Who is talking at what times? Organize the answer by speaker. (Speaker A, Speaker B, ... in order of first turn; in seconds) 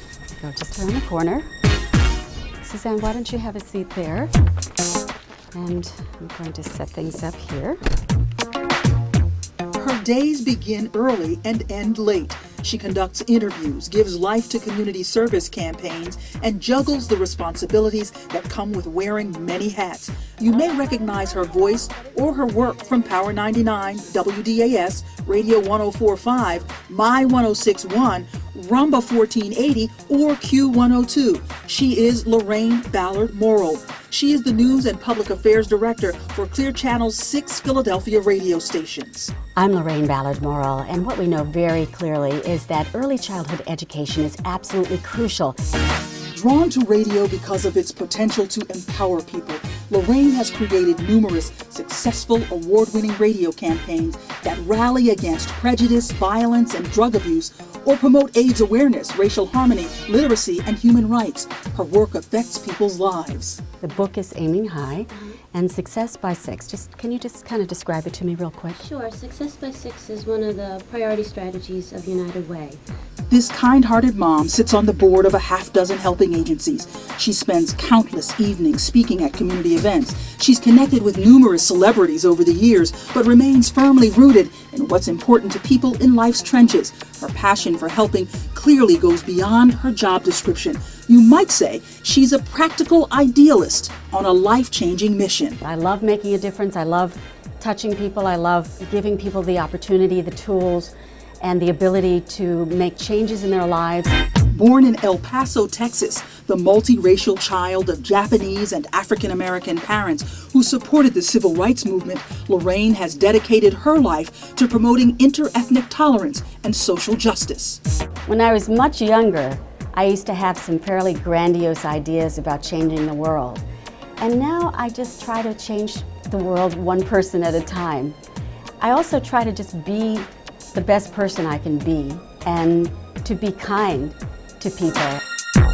Speaker A: 0.4-1.5, 2.6-4.3, 5.5-7.8, 39.6-45.6, 63.8-68.8, 95.6-104.2, 118.3-123.6, 124.2-128.2, 128.8-135.2
Speaker B: 9.8-39.3, 46.3-63.6, 73.3-95.6, 104.5-117.8
Speaker C: 68.8-72.8